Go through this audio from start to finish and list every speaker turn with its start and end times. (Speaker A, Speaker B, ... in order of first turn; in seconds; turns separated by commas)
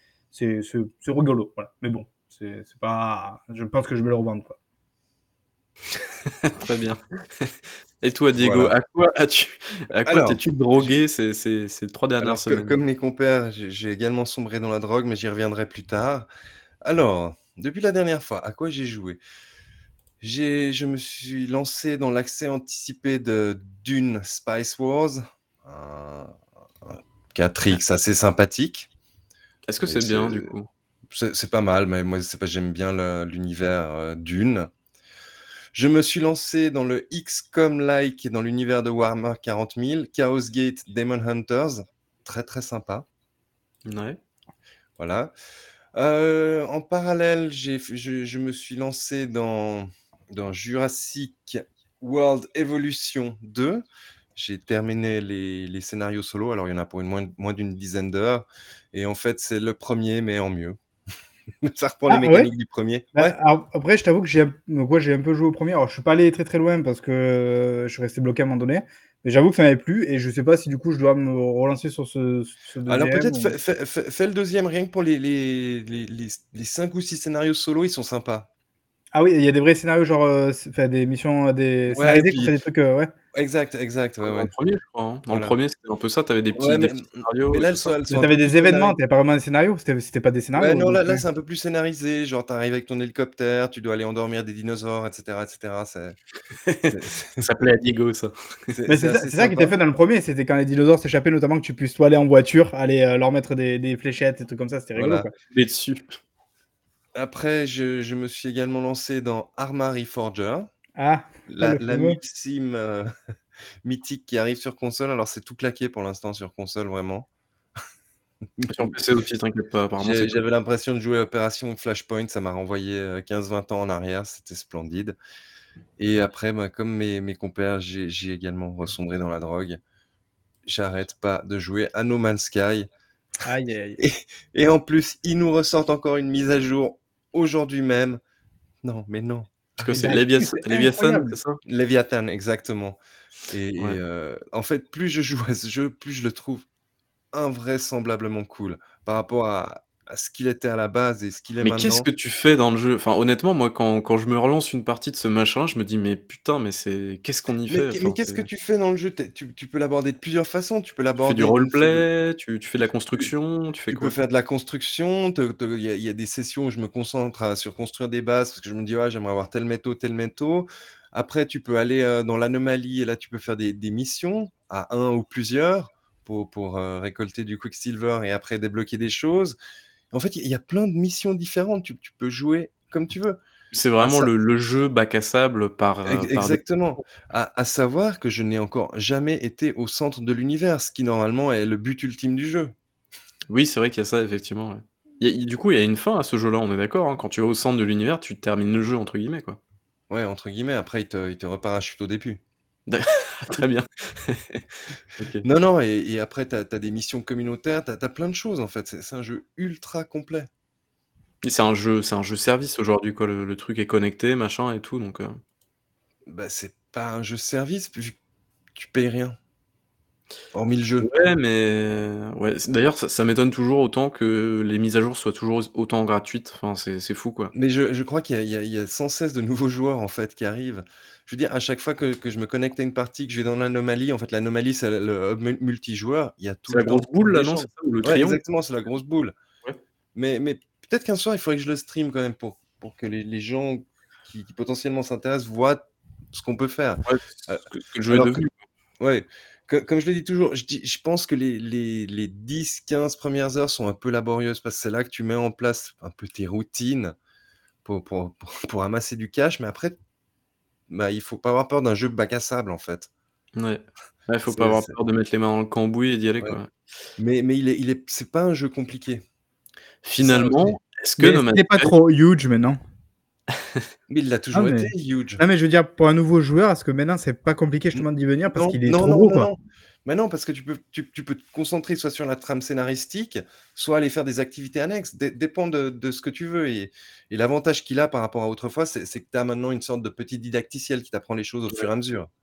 Speaker A: 0.3-4.5, Speaker B: 6.4-12.8, Speaker C: 8.4-8.7, Speaker C: 10.0-10.9, Speaker C: 12.2-16.3, Speaker C: 16.8-19.2, Speaker C: 20.2-28.9, Speaker B: 29.7-30.7, Speaker C: 29.9-30.5, Speaker C: 31.1-34.7, Speaker C: 35.7-43.0, Speaker B: 43.9-44.2, Speaker C: 45.0-45.3, Speaker C: 45.9-53.8, Speaker C: 54.4-60.8, Speaker C: 61.6-63.3, Speaker A: 62.1-62.5, Speaker A: 63.1-73.5, Speaker C: 72.9-78.5, Speaker A: 79.1-83.1, Speaker C: 81.9-82.5, Speaker C: 83.3-84.5, Speaker B: 84.2-88.0, Speaker C: 85.3-85.5, Speaker C: 86.5-89.0, Speaker A: 88.1-91.2, Speaker C: 90.5-96.2, Speaker B: 96.7-98.3, Speaker C: 96.9-97.5, Speaker C: 98.7-99.7, Speaker A: 98.9-105.3, Speaker C: 105.0-105.3, Speaker B: 105.5-106.0, Speaker C: 107.1-110.7, Speaker A: 111.0-112.2, Speaker C: 111.5-113.1, Speaker C: 113.8-117.3, Speaker C: 118.6-118.9, Speaker B: 118.7-120.4, Speaker C: 120.0-125.2, Speaker C: 126.0-129.8, Speaker C: 130.7-132.9, Speaker A: 133.4-134.0, Speaker C: 134.0-138.2, Speaker C: 138.8-140.1, Speaker B: 139.8-141.6, Speaker A: 140.0-141.3, Speaker C: 141.6-146.7, Speaker C: 147.3-152.1, Speaker B: 151.6-158.4, Speaker C: 157.7-162.1, Speaker B: 161.2-164.1, Speaker C: 163.9-179.6, Speaker C: 180.1-183.4, Speaker B: 183.7-186.6, Speaker C: 184.0-184.3, Speaker C: 186.0-192.7, Speaker B: 193.5-199.6, Speaker C: 200.1-202.4, Speaker B: 202.9-204.6, Speaker B: 205.2-205.4, Speaker C: 205.4-210.5, Speaker B: 211.4-215.4, Speaker C: 216.2-218.2, Speaker C: 218.7-219.4, Speaker C: 220.5-221.1, Speaker B: 221.0-227.5, Speaker C: 227.5-239.3, Speaker B: 236.7-238.4, Speaker C: 240.1-248.4, Speaker B: 247.0-248.6, Speaker C: 249.0-257.1, Speaker C: 257.8-259.9, Speaker C: 260.9-263.1, Speaker B: 263.6-266.7, Speaker C: 264.5-265.0, Speaker C: 267.2-269.2, Speaker B: 270.0-271.9, Speaker C: 270.2-270.8, Speaker A: 271.2-272.8, Speaker C: 274.1-275.4, Speaker A: 274.5-279.5, Speaker C: 278.5-292.3